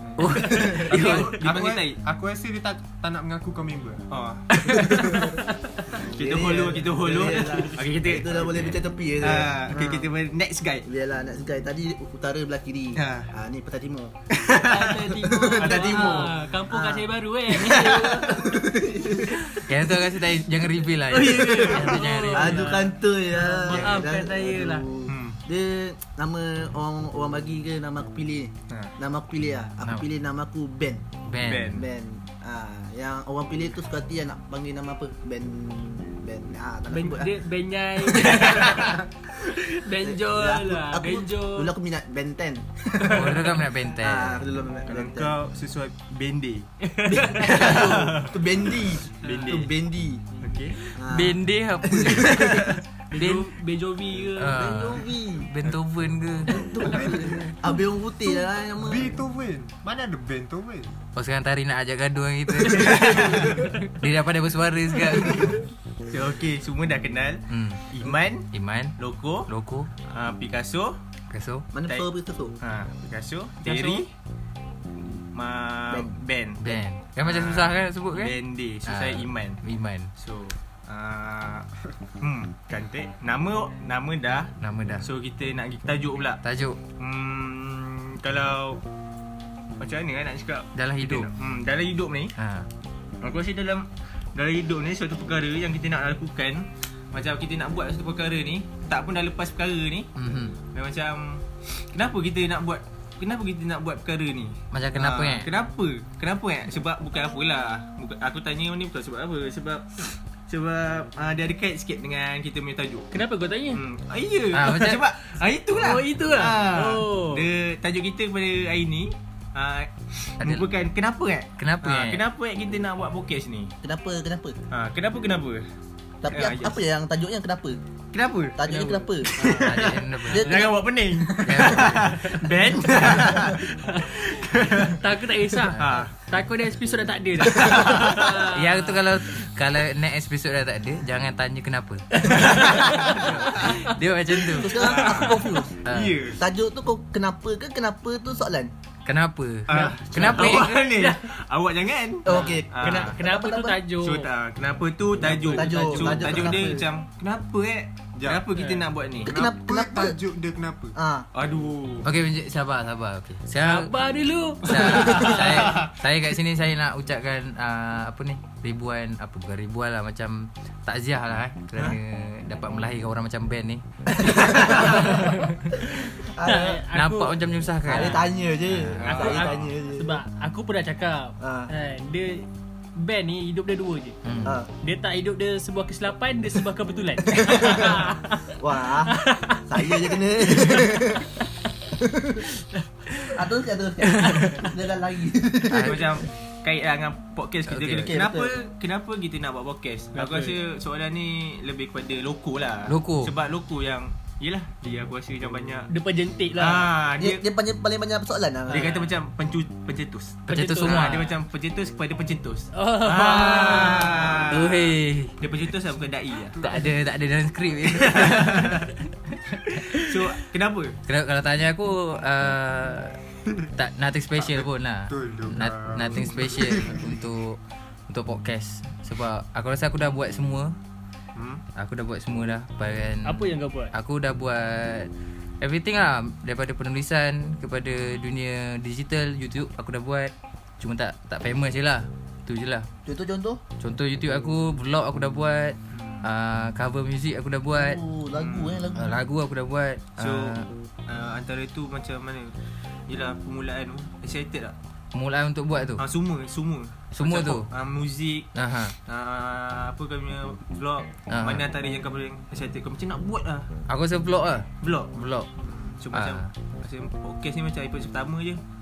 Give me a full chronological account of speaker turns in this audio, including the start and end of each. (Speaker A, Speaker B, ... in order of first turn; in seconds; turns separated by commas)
Speaker A: 0.2-1.4, Speaker B: 0.3-0.9, Speaker C: 0.4-2.0, Speaker D: 0.9-4.1, Speaker C: 4.1-5.3, Speaker E: 4.7-5.9, Speaker D: 4.8-5.2, Speaker C: 5.9-10.9, Speaker B: 6.1-10.1, Speaker D: 9.7-10.0, Speaker B: 10.8-14.2, Speaker C: 12.9-13.3, Speaker C: 14.3-14.9, Speaker E: 14.5-18.6, Speaker B: 14.9-19.4, Speaker C: 15.6-16.4, Speaker C: 17.6-18.4, Speaker E: 19.3-19.6, Speaker A: 19.6-22.6, Speaker C: 21.1-21.9, Speaker E: 21.2-24.9, Speaker B: 21.3-21.7, Speaker B: 22.3-31.1, Speaker C: 23.7-24.0, Speaker C: 25.1-25.4, Speaker C: 28.7-28.9, Speaker A: 31.3-31.7, Speaker C: 31.4-31.8, Speaker B: 31.7-37.4, Speaker E: 36.9-39.0, Speaker B: 38.0-39.0, Speaker E: 39.6-41.7, Speaker B: 40.0-43.3, Speaker A: 43.0-44.4, Speaker B: 44.0-45.3, Speaker C: 44.9-49.7, Speaker E: 46.9-47.8, Speaker B: 47.0-50.2, Speaker E: 49.2-49.6, Speaker E: 50.3-50.6, Speaker C: 50.4-50.8, Speaker B: 51.0-52.7, Speaker A: 51.0-53.5, Speaker E: 53.1-54.6, Speaker A: 54.3-56.5, Speaker B: 54.5-55.5, Speaker B: 56.5-59.2, Speaker D: 56.9-57.5, Speaker D: 58.8-60.9, Speaker A: 61.1-65.6, Speaker C: 62.6-63.5, Speaker C: 66.1-69.5, Speaker A: 67.5-67.8, Speaker A: 68.5-68.9, Speaker A: 69.5-69.9, Speaker C: 70.1-71.0, Speaker A: 71.3-71.7, Speaker B: 71.7-72.5, Speaker C: 72.6-74.1, Speaker E: 73.6-74.0, Speaker C: 75.0-79.6, Speaker B: 75.9-76.1, Speaker A: 76.6-80.1, Speaker C: 80.2-81.7, Speaker C: 82.2-86.4, Speaker A: 84.6-85.1, Speaker A: 86.4-86.8, Speaker C: 87.0-88.8, Speaker C: 89.8-92.3, Speaker A: 90.7-91.3, Speaker A: 92.4-92.7, Speaker C: 93.2-100.1, Speaker A: 100.2-100.6, Speaker C: 100.7-113.1, Speaker A: 104.7-105.5, Speaker E: 113.1-113.8, Speaker C: 113.7-123.7, Speaker A: 114.5-115.0, Speaker E: 115.8-117.4, Speaker A: 120.4-120.7, Speaker A: 121.6-122.2, Speaker B: 123.8-124.6, Speaker C: 124.7-125.7, Speaker B: 126.2-127.8, Speaker C: 126.3-126.8, Speaker C: 128.1-135.0, Speaker B: 128.6-133.6, Speaker A: 129.5-130.7, Speaker A: 131.4-132.3, Speaker E: 133.8-134.1, Speaker E: 134.9-139.4, Speaker A: 135.7-136.0, Speaker C: 135.8-136.1, Speaker C: 137.5-138.3, Speaker A: 138.4-145.3, Speaker E: 142.2-143.9, Speaker C: 142.3-143.4, Speaker B: 144.4-145.8, Speaker C: 144.8-145.6, Speaker A: 145.8-146.2, Speaker D: 145.9-146.4, Speaker B: 146.3-148.7, Speaker A: 149.1-150.8, Speaker C: 149.7-153.2, Speaker B: 150.1-150.5, Speaker E: 150.2-151.2, Speaker B: 152.2-153.8, Speaker E: 152.2-154.3, Speaker C: 154.0-159.3, Speaker E: 155.2-156.2, Speaker B: 155.4-156.8, Speaker D: 158.2-158.4, Speaker E: 158.6-158.8, Speaker D: 159.2-160.9, Speaker B: 159.2-160.2, Speaker B: 160.9-161.3, Speaker C: 161.3-162.1, Speaker A: 162.0-163.9, Speaker E: 163.6-165.8, Speaker A: 164.6-173.8, Speaker B: 174.2-176.8, Speaker A: 174.5-175.5, Speaker E: 176.4-177.4, Speaker A: 176.9-179.3, Speaker B: 177.8-180.1, Speaker C: 179.0-179.7, Speaker E: 179.1-182.4, Speaker B: 181.4-181.7, Speaker E: 182.9-184.2, Speaker A: 184.2-184.6, Speaker E: 184.8-191.0, Speaker B: 187.3-188.0, Speaker B: 188.6-191.3, Speaker B: 191.9-192.4, Speaker E: 192.8-193.3, Speaker B: 193.3-196.1, Speaker A: 195.7-196.2, Speaker C: 195.8-205.9, Speaker A: 197.7-198.1, Speaker B: 198.0-198.6, Speaker E: 200.1-200.6, Speaker A: 202.9-203.3, Speaker E: 205.9-206.9, Speaker C: 206.6-207.4, Speaker B: 207.2-208.9, Speaker E: 208.7-209.1, Speaker C: 208.7-216.7, Speaker E: 210.5-211.1, Speaker A: 210.5-211.4, Speaker E: 212.7-214.3, Speaker A: 214.5-215.4, Speaker D: 216.5-216.8, Speaker A: 216.6-220.2, Speaker C: 217.9-218.9, Speaker C: 219.9-221.0, Speaker A: 221.1-223.2, Speaker A: 223.8-227.6, Speaker D: 224.3-227.2, Speaker A: 228.1-230.7, Speaker D: 231.3-231.6, Speaker A: 231.8-235.1, Speaker E: 233.2-233.9, Speaker A: 235.6-242.9, Speaker B: 243.0-243.6, Speaker A: 243.8-248.0, Speaker C: 245.9-246.2, Speaker B: 247.8-249.1, Speaker C: 248.3-248.9, Speaker A: 248.9-250.7, Speaker C: 250.2-252.5, Speaker C: 253.1-254.7, Speaker A: 255.1-256.0, Speaker C: 256.0-258.5, Speaker A: 257.1-257.7, Speaker A: 258.5-258.9, Speaker C: 259.1-263.7, Speaker A: 261.3-261.6, Speaker A: 263.9-265.5, Speaker C: 264.8-268.6, Speaker A: 266.1-266.5